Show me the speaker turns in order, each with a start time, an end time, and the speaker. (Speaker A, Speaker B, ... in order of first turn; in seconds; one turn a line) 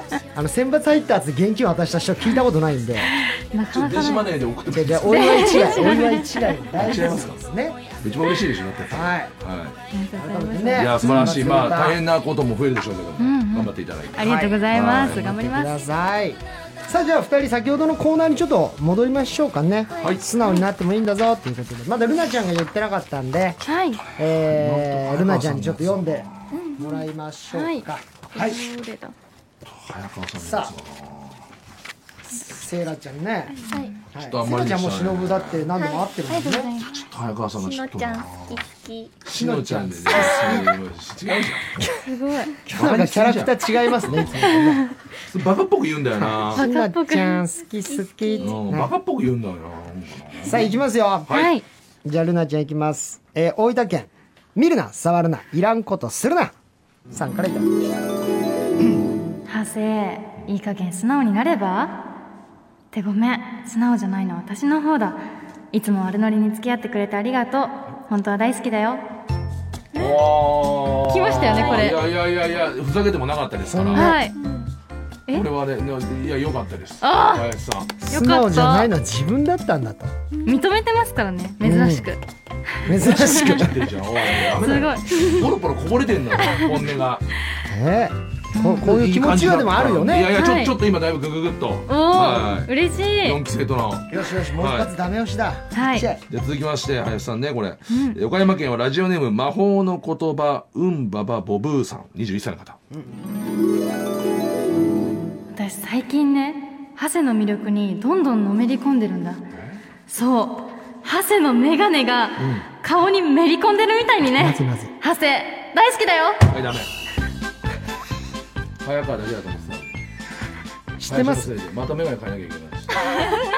Speaker A: 0.3-3.1
Speaker B: 3.1-4.3
Speaker C: 3.7-5.8
Speaker A: 4.7-7.8
Speaker B: 5.1-6.8
Speaker C: 6.8-7.4
Speaker C: 8.0-9.8
Speaker A: 8.9-9.3
Speaker B: 9.9-11.3
Speaker A: 10.2-12.0
Speaker C: 10.7-15.2
Speaker B: 13.2-15.7
Speaker A: 14.2-23.6
Speaker D: 19.9-20.2
Speaker B: 23.6-24.0
Speaker A: 24.1-28.6
Speaker C: 24.2-26.3
Speaker D: 26.5-27.0
Speaker B: 27.5-29.1
Speaker C: 29.6-31.4
Speaker A: 30.4-30.7
Speaker A: 32.3-33.5
Speaker B: 33.5-34.0
Speaker D: 33.6-33.9
Speaker A: 34.1-36.7
Speaker C: 34.2-35.7
Speaker D: 35.7-36.1
Speaker B: 36.3-37.1
Speaker C: 36.9-38.6
Speaker D: 37.5-39.2
Speaker C: 39.2-41.7
Speaker A: 39.3-40.7
Speaker D: 40.1-40.6
Speaker A: 41.8-42.0
Speaker B: 42.0-42.5
Speaker A: 42.6-44.9
Speaker C: 42.7-44.6
Speaker B: 44.5-44.9
Speaker C: 45.3-46.6
Speaker A: 46.2-48.9
Speaker B: 46.5-47.4
Speaker D: 47.8-48.6
Speaker C: 48.4-50.7
Speaker A: 50.5-51.3
Speaker C: 51.3-51.5
Speaker B: 51.3-51.6
Speaker A: 52.0-56.5
Speaker A: 57.1-57.8
Speaker B: 59.5-62.0
Speaker B: 62.9-69.0
Speaker C: 69.9-74.2
Speaker B: 71.1-72.0
Speaker D: 71.5-71.9
Speaker A: 73.7-74.2
Speaker B: 73.9-74.4
Speaker D: 74.3-74.7
Speaker C: 75.3-77.9
Speaker B: 77.0-77.5
Speaker A: 78.0-80.1
Speaker B: 78.1-78.9
Speaker D: 80.3-80.6
Speaker B: 80.4-83.7
Speaker A: 81.6-82.1
Speaker A: 82.8-83.8
Speaker C: 82.9-87.2
Speaker B: 84.3-85.5
Speaker B: 86.5-86.8
Speaker A: 87.7-90.3
Speaker B: 88.5-88.8
Speaker C: 88.7-94.9
Speaker B: 90.3-90.8
Speaker B: 91.9-93.4
Speaker A: 94.1-96.2
Speaker B: 95.7-96.1
Speaker C: 96.3-102.8
Speaker B: 97.9-98.2
Speaker B: 105.5-109.4
Speaker C: 109.5-109.8
Speaker B: 110.1-116.4
Speaker A: 114.3-114.9
Speaker C: 116.5-116.9
Speaker C: 118.8-119.9
Speaker A: 121.0-121.5
Speaker C: 121.1-123.0